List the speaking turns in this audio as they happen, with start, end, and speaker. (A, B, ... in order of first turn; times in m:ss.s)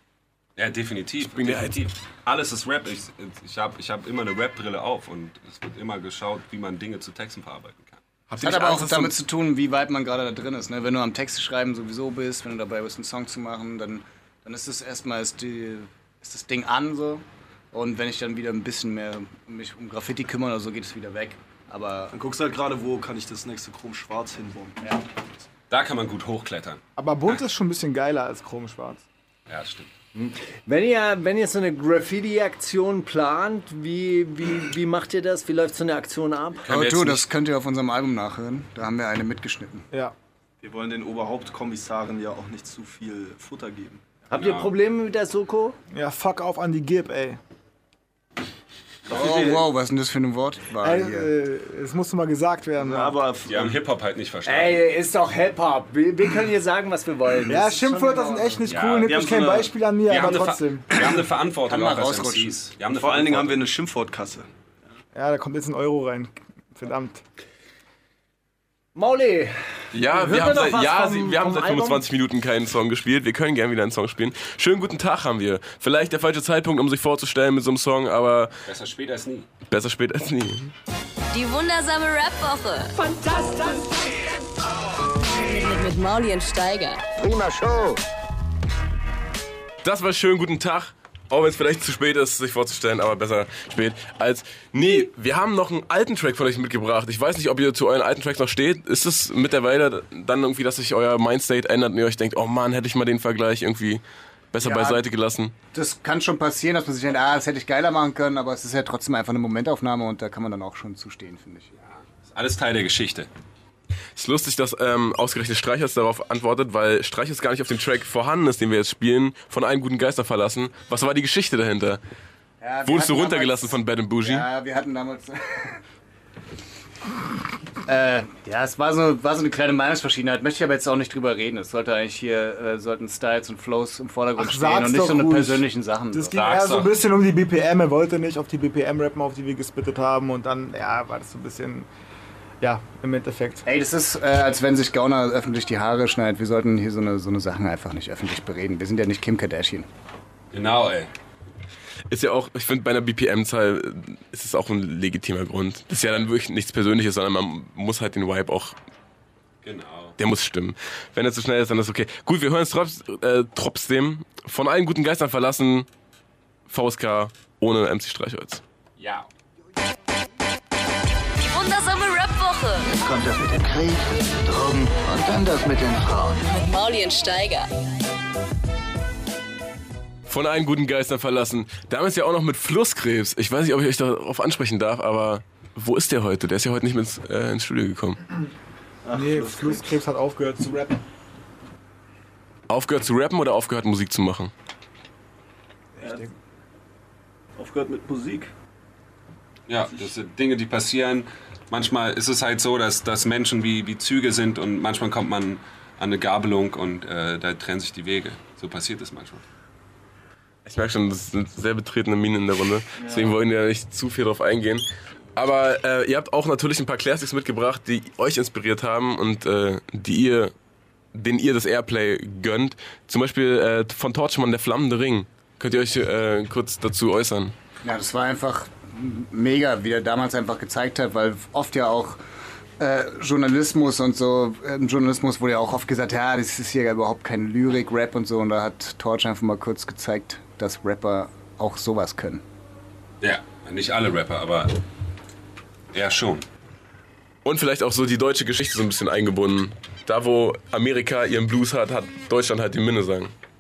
0:00.6-0:08.0 A
0:01.2-0:01.8 B
0:08.3-0:09.1 B
0:08.4-0:22.1 C
0:22.1-0:25.0 D
0:25.7-0:26.8 A
0:27.0-0:29.0 E
0:29.5-0:29.9 A
0:30.1-0:36.6 F
0:36.6-0:37.3 A
0:36.7-0:39.8 C
0:40.6-0:44.0 D
0:44.3-0:45.8 F
0:44.3-0:44.7 A
0:45.9-0:47.4 E
0:49.1-0:49.7 D
0:49.1-0:51.3 C
0:50.8-0:53.2 E
0:52.8-0:53.8 D
0:53.4-0:54.8 A
0:54.4-0:58.6 F
0:57.5-1:01.0 E
0:58.7-0:59.2 A
0:59.0-0:59.7 D
1:00.1-1:03.6 A
1:01.6-1:02.6 C
1:02.9-1:04.5 D
1:05.1-1:07.2 E
1:08.9-1:12.0 F
1:09.9-1:18.5 B
1:18.6-1:19.5 A
1:19.7-1:20.7 B
1:21.3-1:24.2 G
1:25.2-1:27.9 G
1:29.8-1:44.0 B
1:44.5-1:45.5 B
1:44.6-1:45.0 C
1:45.7-1:51.7 C
1:51.8-1:53.3 A
1:54.1-2:02.0 B
2:02.6-2:05.8 C
2:02.8-2:04.4 B
2:07.8-2:16.4 C
2:14.4-2:21.9 E
2:16.3-2:16.9 A
2:22.6-2:23.6 E
2:23.6-2:29.9 C
2:30.5-2:31.1 A
2:32.1-2:38.8 B
2:39.6-2:40.2 A
2:40.2-2:45.9 B
2:46.7-2:48.6 B
2:49.0-2:49.3 A
2:51.4-2:52.9 G
2:52.9-2:56.4 H
2:56.4-2:57.7 G
3:00.3-3:08.2 B
3:09.0-3:09.8 D
3:09.1-3:11.0 E
3:12.7-3:14.5 B
3:16.0-3:16.3 E
3:17.6-3:18.5 D
3:19.7-3:29.4 A
3:30.6-3:40.5 B
3:41.1-3:47.5 B
3:47.8-3:52.2 C
3:52.8-4:02.4 C
4:03.2-4:04.8 A
4:05.9-4:06.4 A
4:07.4-4:13.3 B